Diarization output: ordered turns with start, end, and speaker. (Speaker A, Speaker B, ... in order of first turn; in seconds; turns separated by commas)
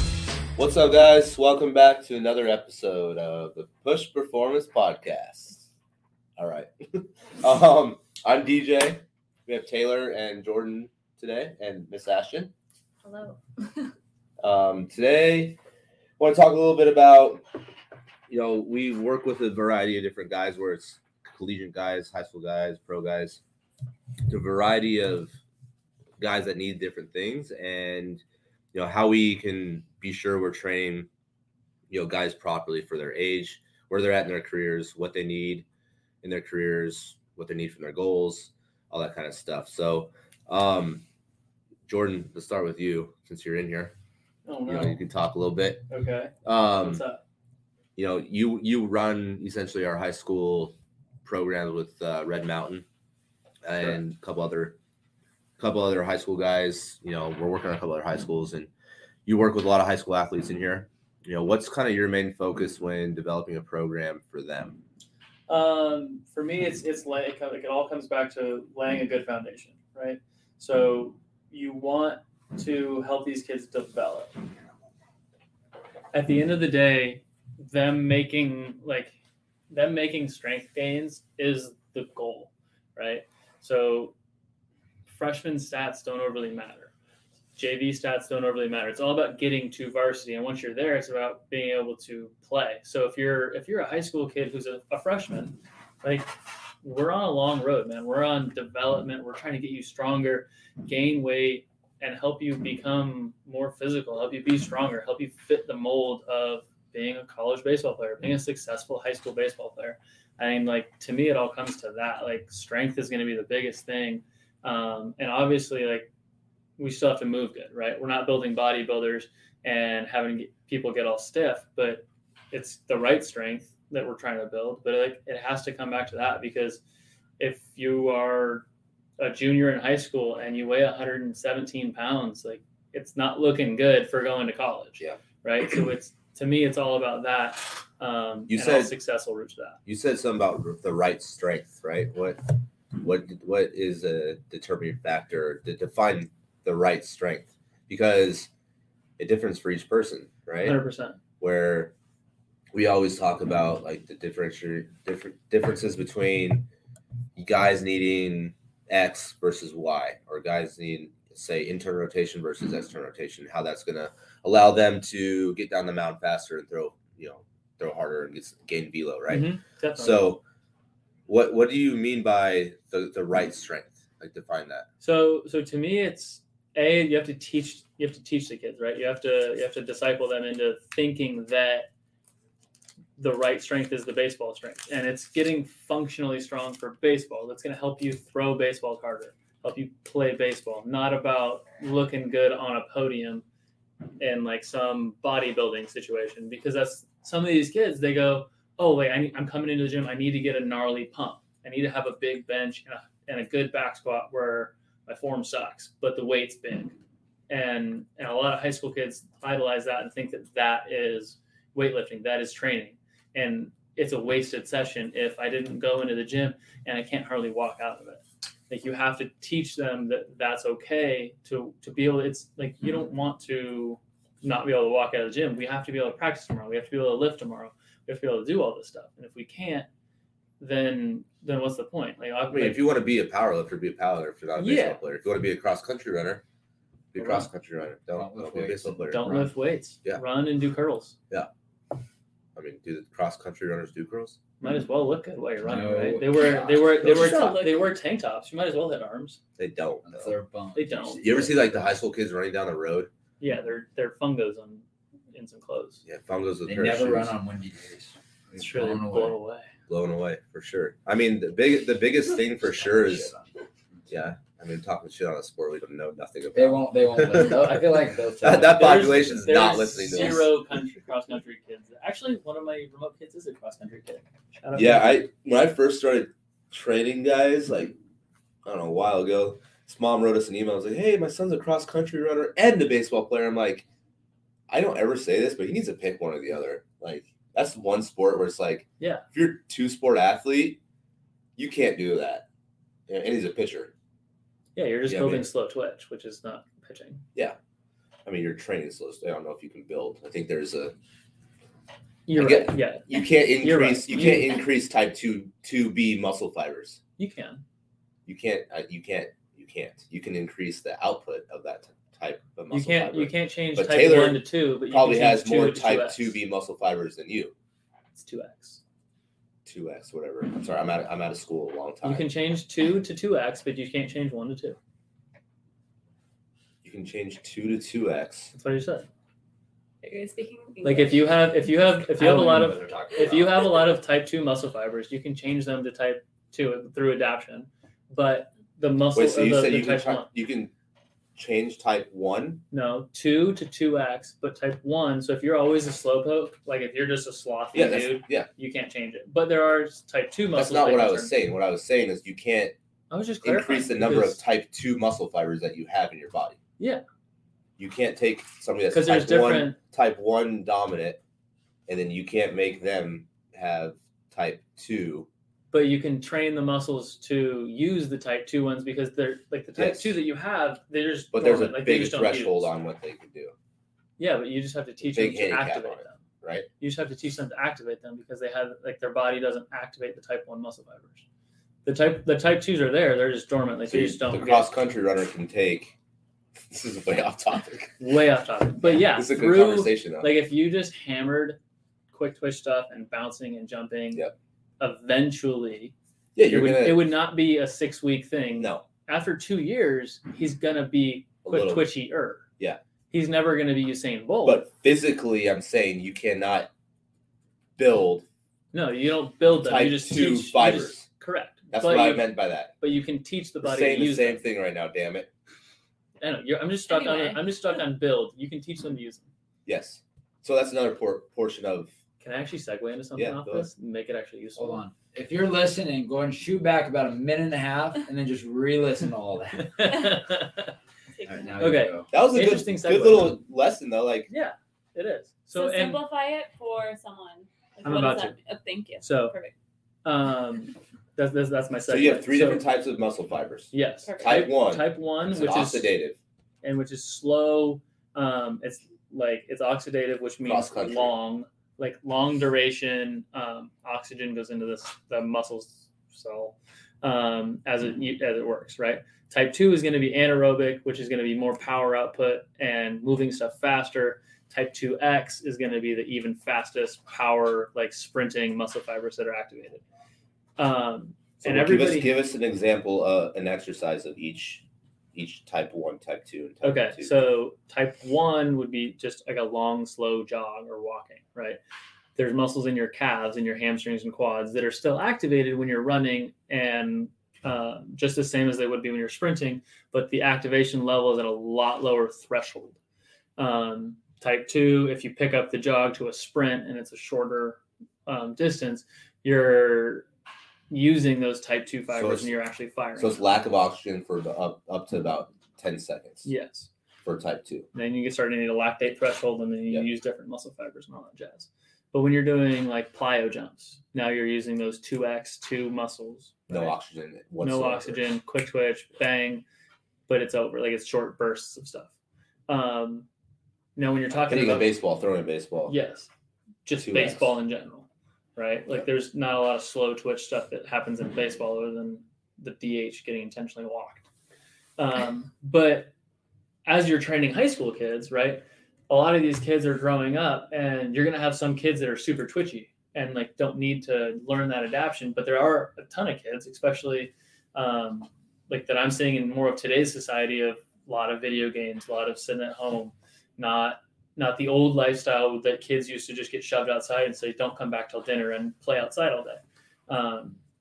Speaker A: 0.6-5.6, Speaker A: 6.4-12.5, Speaker B: 13.0-13.9, Speaker A: 14.4-15.6, Speaker A: 16.2-17.4, Speaker A: 18.3-23.4, Speaker A: 24.3-25.4, Speaker A: 26.2-28.2, Speaker A: 28.7-31.1, Speaker A: 31.9-35.6, Speaker A: 36.2-41.0, Speaker A: 41.9-43.9, Speaker C: 44.5-45.0, Speaker A: 44.7-45.9, Speaker C: 45.9-47.2, Speaker A: 46.4-47.0, Speaker A: 48.0-52.8, Speaker A: 53.6-54.8, Speaker A: 55.6-58.7, Speaker A: 59.2-64.8, Speaker C: 65.5-74.4, Speaker C: 76.1-79.2, Speaker C: 79.7-84.1, Speaker C: 85.1-86.9, Speaker C: 87.5-96.3, Speaker C: 96.8-116.1, Speaker C: 116.8-126.8, Speaker C: 127.4-128.6, Speaker C: 129.2-139.8, Speaker A: 138.5-138.9, Speaker A: 139.8-148.5, Speaker A: 149.2-150.8, Speaker C: 150.6-151.2, Speaker A: 151.4-151.9, Speaker A: 152.7-156.7, Speaker A: 157.3-170.4, Speaker C: 169.3-170.3, Speaker A: 171.3-174.9, Speaker C: 175.0-181.9, Speaker C: 183.2-193.4, Speaker C: 194.2-207.0, Speaker C: 207.5-229.9, Speaker C: 230.6-232.8, Speaker A: 232.5-236.4, Speaker C: 234.6-235.0, Speaker A: 237.1-239.3, Speaker C: 237.2-237.5, Speaker D: 238.1-239.5, Speaker C: 239.1-241.2, Speaker A: 242.5-244.4, Speaker C: 244.6-249.4, Speaker D: 245.6-247.6, Speaker A: 247.0-247.3, Speaker B: 247.1-247.8, Speaker A: 249.6-250.3, Speaker D: 250.1-251.8, Speaker C: 250.7-251.2, Speaker A: 251.2-253.1, Speaker C: 253.4-256.0, Speaker A: 256.1-257.3, Speaker D: 256.7-259.4, Speaker C: 258.5-259.7, Speaker A: 259.9-263.3, Speaker D: 262.8-263.5, Speaker A: 264.1-270.5, Speaker D: 266.5-269.6, Speaker C: 268.8-275.2, Speaker A: 274.7-277.9, Speaker A: 278.6-283.8, Speaker A: 284.7-290.8, Speaker A: 291.6-292.4, Speaker A: 293.1-293.9, Speaker C: 294.8-297.2, Speaker A: 295.1-295.4, Speaker A: 298.2-300.9, Speaker C: 302.3-304.6, Speaker A: 302.4-307.0, Speaker C: 307.2-307.6, Speaker A: 308.2-317.5, Speaker C: 312.7-316.4, Speaker C: 318.1-318.8, Speaker A: 319.6-322.3, Speaker C: 322.0-324.8, Speaker A: 326.8-328.5, Speaker C: 328.5-329.1, Speaker B: 330.0-331.3, Speaker C: 330.8-340.3, Speaker D: 332.1-333.7, Speaker A: 339.1-340.7, Speaker A: 341.4-342.6, Speaker C: 342.7-351.3, Speaker A: 347.7-348.5, Speaker A: 350.6-352.7, Speaker C: 353.1-354.4, Speaker A: 353.4-356.6, Speaker A: 357.8-361.2, Speaker C: 358.9-359.8, Speaker A: 361.9-365.3, Speaker C: 365.7-372.7, Speaker A: 369.8-370.2, Speaker A: 371.3-373.5, Speaker C: 374.2-376.2, Speaker A: 375.0-376.7, Speaker C: 376.8-381.2, Speaker C: 381.8-384.7, Speaker A: 383.9-385.9, Speaker A: 386.7-388.0, Speaker C: 388.0-391.6, Speaker A: 388.8-390.3, Speaker C: 392.1-394.2, Speaker C: 394.8-395.9, Speaker A: 396.3-397.1, Speaker C: 396.5-402.4, Speaker A: 398.6-398.8, Speaker A: 401.4-401.9, Speaker C: 403.1-404.6, Speaker A: 404.4-406.7, Speaker A: 407.8-408.2, Speaker C: 408.7-414.4, Speaker A: 409.5-411.1, Speaker A: 411.7-412.7, Speaker A: 413.6-415.3, Speaker C: 416.2-419.3, Speaker B: 416.9-417.4, Speaker A: 419.6-421.9, Speaker C: 422.2-424.8, Speaker A: 423.1-423.7, Speaker D: 424.6-429.8, Speaker C: 429.6-430.7, Speaker B: 431.1-431.8, Speaker D: 431.2-432.1, Speaker C: 431.6-433.4, Speaker A: 432.1-434.3, Speaker C: 434.3-436.0, Speaker B: 435.5-439.5, Speaker C: 437.8-438.3, Speaker C: 439.0-439.3, Speaker C: 440.0-442.6, Speaker A: 441.9-446.2, Speaker C: 443.7-445.9, Speaker B: 444.1-444.5, Speaker C: 446.6-469.8, Speaker A: 450.4-451.1, Speaker C: 470.6-472.1, Speaker A: 471.4-474.6, Speaker A: 475.1-477.1, Speaker C: 476.6-481.6, Speaker C: 482.1-492.8, Speaker C: 493.4-500.1, Speaker C: 500.7-503.2, Speaker A: 501.9-502.3, Speaker A: 502.9-506.3, Speaker C: 506.2-506.7, Speaker A: 507.0-507.7, Speaker C: 507.7-516.7, Speaker A: 516.5-518.2, Speaker C: 517.4-519.4, Speaker C: 520.1-521.9, Speaker C: 522.5-523.1, Speaker C: 523.8-524.7, Speaker A: 524.3-525.7, Speaker C: 525.7-526.1, Speaker C: 526.6-534.0, Speaker A: 526.8-527.4, Speaker C: 534.8-535.9, Speaker C: 536.6-560.4